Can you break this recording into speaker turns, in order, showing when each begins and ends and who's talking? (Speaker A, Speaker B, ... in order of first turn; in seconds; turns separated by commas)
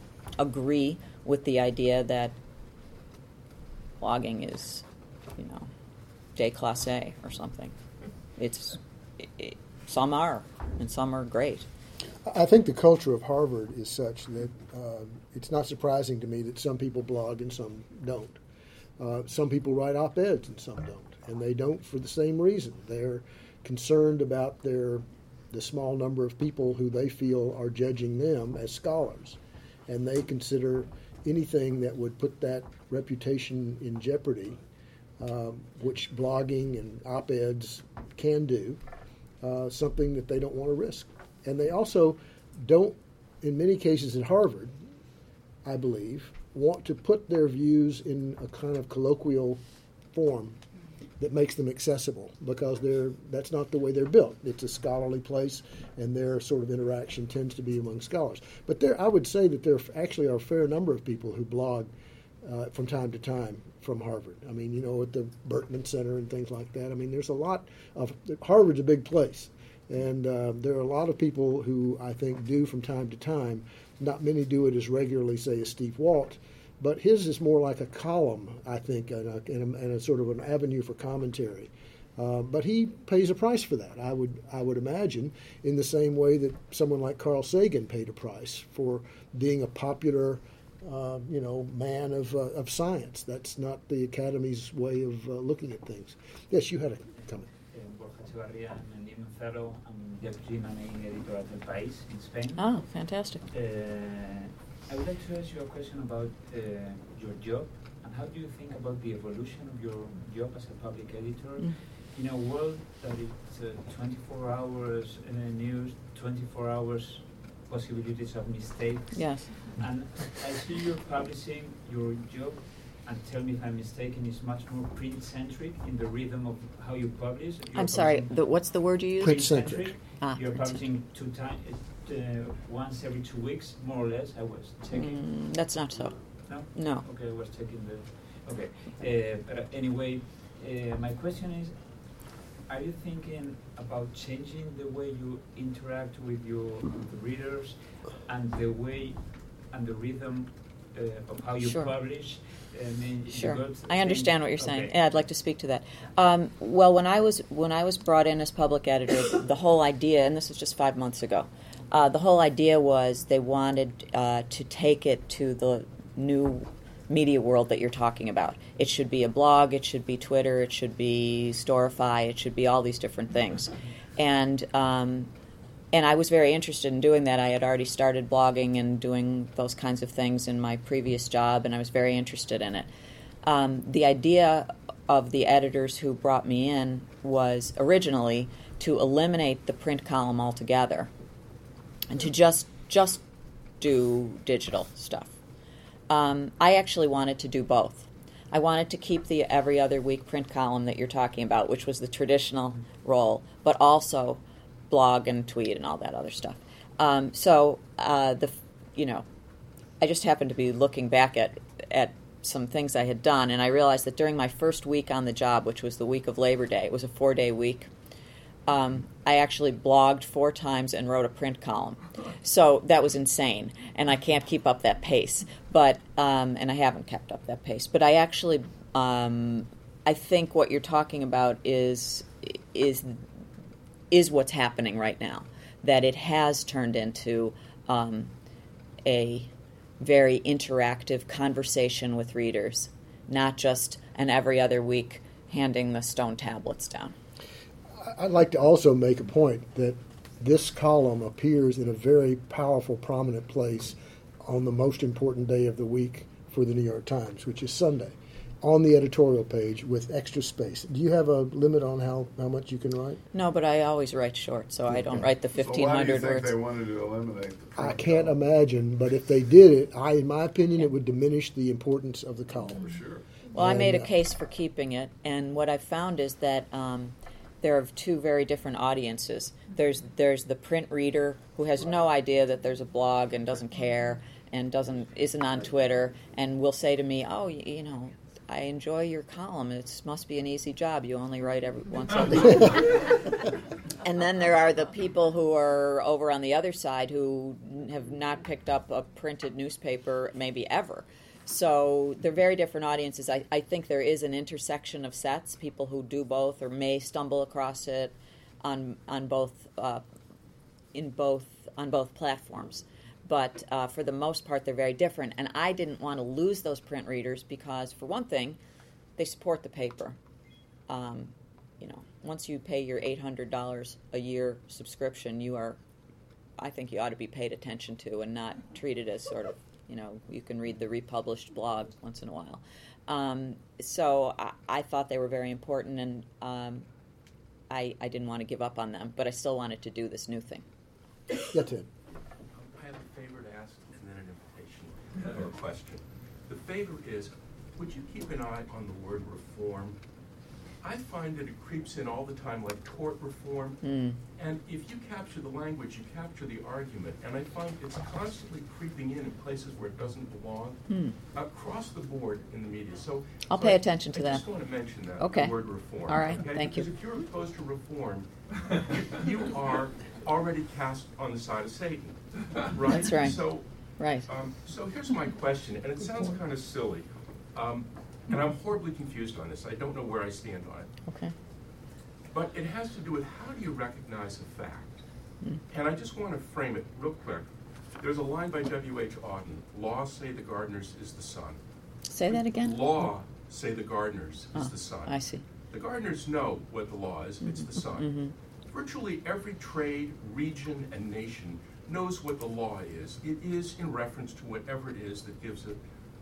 Speaker A: 0.4-2.4, Speaker A: 4.0-4.8, Speaker A: 5.3-5.7, Speaker A: 6.3-7.7, Speaker A: 8.4-11.7, Speaker B: 12.2-18.4, Speaker B: 19.0-34.6, Speaker B: 35.2-38.8, Speaker B: 39.4-44.7, Speaker B: 45.6-49.6, Speaker B: 50.1-50.6, Speaker B: 51.2-61.9, Speaker B: 62.4-97.5, Speaker C: 97.5-102.9, Speaker A: 102.5-103.4, Speaker C: 103.5-135.7, Speaker A: 119.1-119.5, Speaker A: 127.7-130.8, Speaker B: 129.2-129.8, Speaker A: 134.9-137.1, Speaker C: 136.4-155.2, Speaker A: 151.6-151.9, Speaker A: 153.2-175.3, Speaker A: 175.9-182.9, Speaker A: 183.4-191.1, Speaker A: 192.1-193.2, Speaker A: 193.8-195.4, Speaker A: 196.1-209.2, Speaker A: 210.0-217.9, Speaker A: 218.7-233.2, Speaker A: 234.1-238.3, Speaker A: 239.0-247.1, Speaker B: 248.0-263.2, Speaker A: 263.3-266.5, Speaker D: 265.4-268.3, Speaker B: 267.8-272.9, Speaker D: 272.7-273.2, Speaker A: 273.5-293.3, Speaker B: 273.5-274.1, Speaker A: 294.0-310.0, Speaker A: 310.9-318.6, Speaker A: 319.2-320.2, Speaker A: 320.9-325.8, Speaker A: 326.6-336.9, Speaker A: 337.7-340.6, Speaker B: 341.5-341.9, Speaker E: 342.5-350.0, Speaker E: 350.8-353.8, Speaker A: 353.8-354.2, Speaker E: 354.3-380.9, Speaker A: 360.9-361.2, Speaker A: 363.5-364.4, Speaker A: 365.1-366.9, Speaker A: 373.0-374.3, Speaker A: 381.1-381.3, Speaker E: 382.3-385.0, Speaker E: 385.7-391.6, Speaker A: 392.1-393.1, Speaker E: 392.3-405.8, Speaker A: 394.5-395.4, Speaker A: 397.4-398.3